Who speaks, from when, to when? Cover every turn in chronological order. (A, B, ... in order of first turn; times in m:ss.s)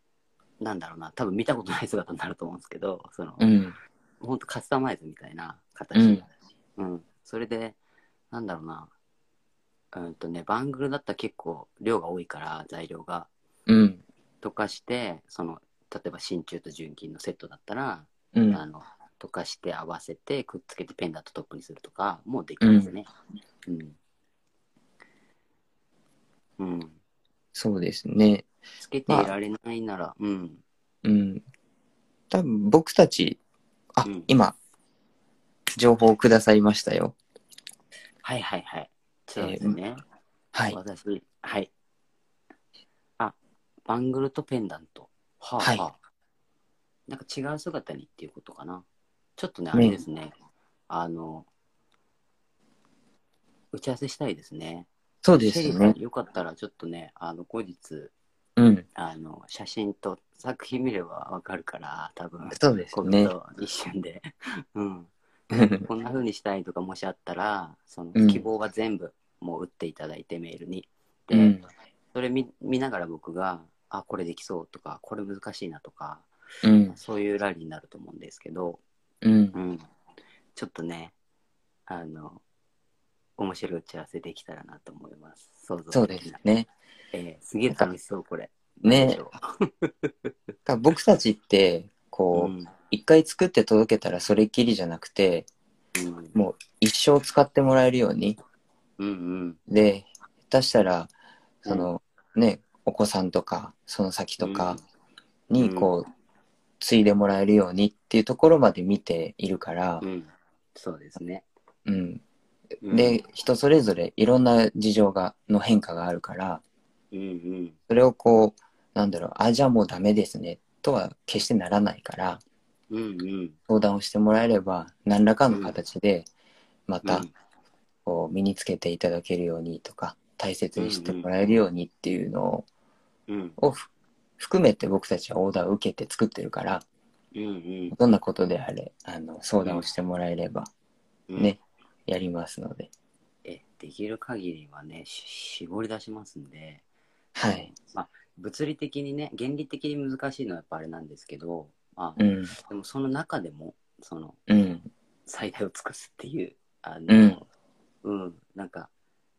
0:00.6-0:03.5 A
0:03.4-0:03.8 B
0:04.2-0:07.8 A
0:05.9-0:06.2 B
0:08.3-0:08.9 A
0:09.9-0:13.3 A
0:13.7-0:14.0 B
0:14.4-0:23.1 A
0:18.3-0:18.6 B
0:22.6-0:22.9 B
0:23.6-0:24.0 A
0:26.6-0:27.0 A
0:27.5-0:28.5 B
0:28.8-0:30.6 A
0:29.1-0:29.3 B
0:31.0-0:31.4 B
0:32.3-0:33.4 B
0:33.9-0:34.5 B
0:34.0-0:34.3 A
0:35.8-0:37.2 B
0:38.2-0:40.0 A
0:39.4-0:39.8 B
0:40.7-0:41.7 A
0:43.2-0:46.0 A
0:45.6-0:45.8 B
0:47.1-0:48.8 A
0:49.4-0:50.3 A
0:49.7-0:50.0 B
0:50.9-0:51.5 A
0:53.7-0:58.1 A
0:55.2-0:56.0 B
0:58.6-0:58.8 B
0:59.0-1:11.6 A
1:02.5-1:03.3 B
1:05.5-1:05.8 B
1:08.1-1:08.4 B
1:11.3-1:11.6 B
1:12.1-1:16.3 A
1:16.6-1:17.0 B
1:16.9-1:18.8 A
1:19.2-1:19.6 B
1:19.5-1:19.8 A
1:20.5-1:21.1 A
1:21.9-1:22.4 A
1:23.4-1:26.4 A
1:25.9-1:26.7 B
1:27.1-1:30.3 A
1:28.8-1:29.2 B
1:30.6-1:35.5 B
1:32.3-1:32.7 A
1:35.9-1:36.3 A
1:36.3-1:38.4 B
1:39.0-1:39.6 A
1:39.7-1:41.1 B
1:41.6-1:44.8 B
1:44.4-1:44.8 A
1:45.5-1:46.1 B
1:45.6-1:45.9 A
1:46.8-1:50.0 B
1:50.0-1:51.5 A
1:51.8-1:52.2 B
1:52.8-1:53.2 A
1:52.9-1:56.6 B
1:57.1-1:57.8 A
1:57.9-2:02.4 B
2:02.9-2:03.6 A
2:03.7-2:06.3 B
2:05.5-2:05.8 A
2:06.9-2:07.2 B
2:07.0-2:07.3 A
2:08.0-2:12.7 B
2:10.8-2:11.3 A
2:13.3-2:13.6 A
2:13.6-2:16.8 B
2:17.3-2:18.0 A
2:17.9-2:20.7 B
2:19.6-2:19.9 A
2:21.3-2:21.6 A
2:21.4-2:22.9 B
2:23.4-2:26.8 A
2:27.4-2:27.7 B
2:27.5-2:34.4 A
2:32.2-2:32.5 B
2:34.5-2:34.9 B
2:35.2-2:37.4 A
2:37.1-2:37.4 B
2:38.0-2:38.9 A